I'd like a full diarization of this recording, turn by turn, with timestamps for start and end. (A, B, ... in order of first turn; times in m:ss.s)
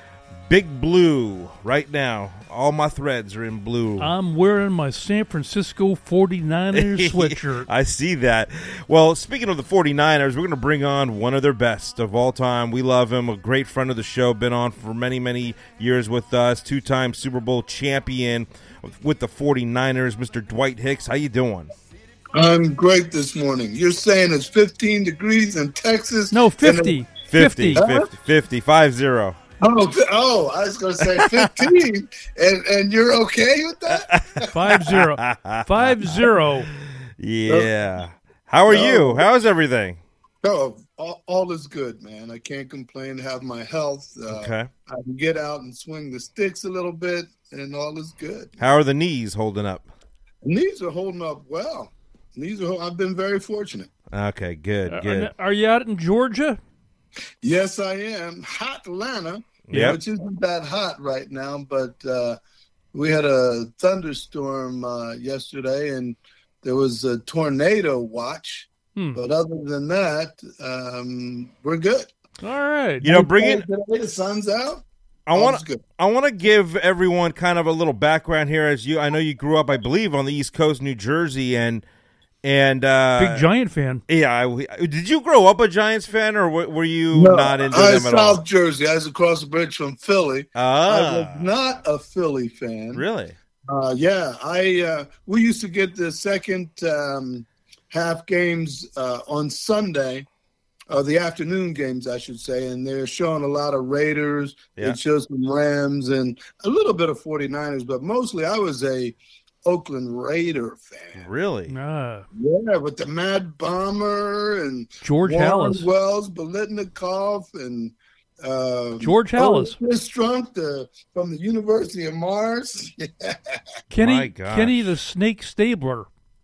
0:00.5-0:04.1 A
0:04.0-0:07.7 B
0:06.7-0:21.7 A
0:22.3-0:27.0 C
0:26.3-0:27.8 B
0:27.3-0:29.4 A
0:27.7-0:28.1 C
0:29.6-0:34.4 C
0:31.1-0:31.6 A
0:34.1-0:40.0 A
0:34.5-0:36.7 B
0:38.7-0:39.3 C
0:40.4-0:48.5 C
0:44.3-0:44.7 A
0:48.6-0:49.9 A
0:50.4-0:53.9 C
0:54.1-0:55.3 A
0:54.9-0:56.6 B
0:57.4-1:02.4 C
0:59.7-1:00.0 A
0:59.7-1:00.0 B
1:02.9-1:12.1 C
1:12.4-1:13.0 B
1:13.0-1:13.6 A
1:13.0-1:15.8 C
1:15.3-1:21.8 A
1:22.4-1:23.4 A
1:23.2-1:24.0 B
1:24.1-1:28.4 A
1:27.1-1:33.0 C
1:30.5-1:31.5 A
1:32.9-1:33.4 A
1:33.7-1:40.2 C
1:40.9-1:51.2 C
1:51.2-1:51.7 A
1:51.7-1:52.2 B
1:52.3-2:03.6 C
1:55.0-1:55.9 B
1:59.0-1:59.7 B
2:03.9-2:06.1 B
2:04.0-2:04.7 A